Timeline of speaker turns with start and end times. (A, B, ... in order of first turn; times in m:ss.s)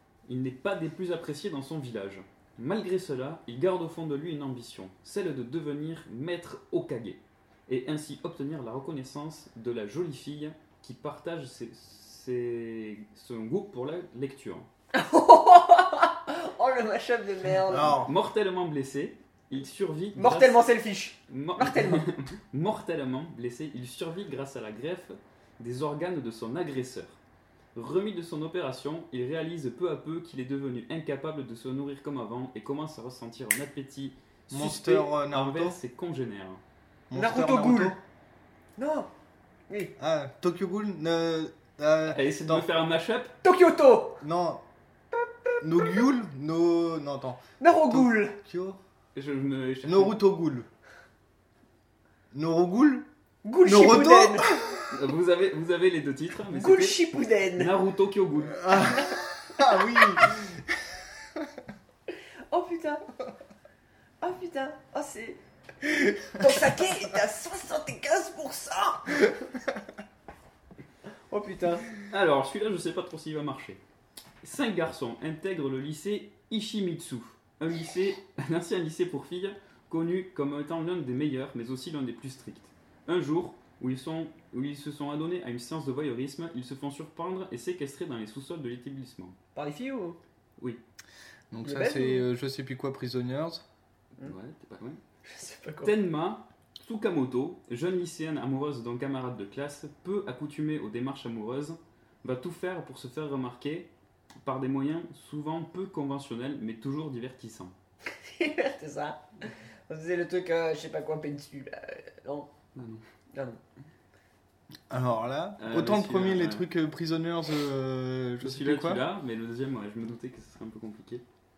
0:00.2-0:14.7 A
0:14.9-0:18.0 B
0:17.7-0:18.1 C
0:18.0-0:20.7 A
0:20.1-0:22.0 B
0:21.3-0:27.2 A
0:27.7-0:36.6 A
0:34.5-0:35.8 C
0:37.1-0:38.0 C
0:37.1-0:38.0 B
0:38.8-0:39.1 B
0:40.0-0:42.7 C
0:42.1-0:43.3 A
0:43.4-0:44.2 B
0:44.2-0:44.6 C
0:45.1-0:46.0 B
0:45.6-0:48.8 C
0:47.6-0:48.4 B
0:49.1-0:50.2 A
0:49.8-0:50.7 C
0:52.3-0:53.1 C
0:53.4-0:54.7 B
0:53.6-0:54.9 C
0:54.9-0:58.8 A
0:56.5-0:57.7 B
0:58.6-1:00.7 C
1:02.5-1:03.0 B
1:04.2-1:05.4 B
1:06.2-1:09.3 B
1:11.3-1:11.9 B
1:12.1-1:13.8 A
1:14.4-1:29.4 A
1:29.5-1:30.2 B
1:31.5-1:33.6 C
1:31.6-1:32.3 B
1:34.2-1:35.0 A
1:35.2-1:35.9 B
1:35.8-1:43.9 A
1:44.4-1:47.7 A
1:48.1-1:52.5 B
1:52.7-1:53.0 A
1:53.3-1:53.6 B
1:54.9-1:59.0 C
1:55.6-1:56.7 A
1:58.4-2:01.2 A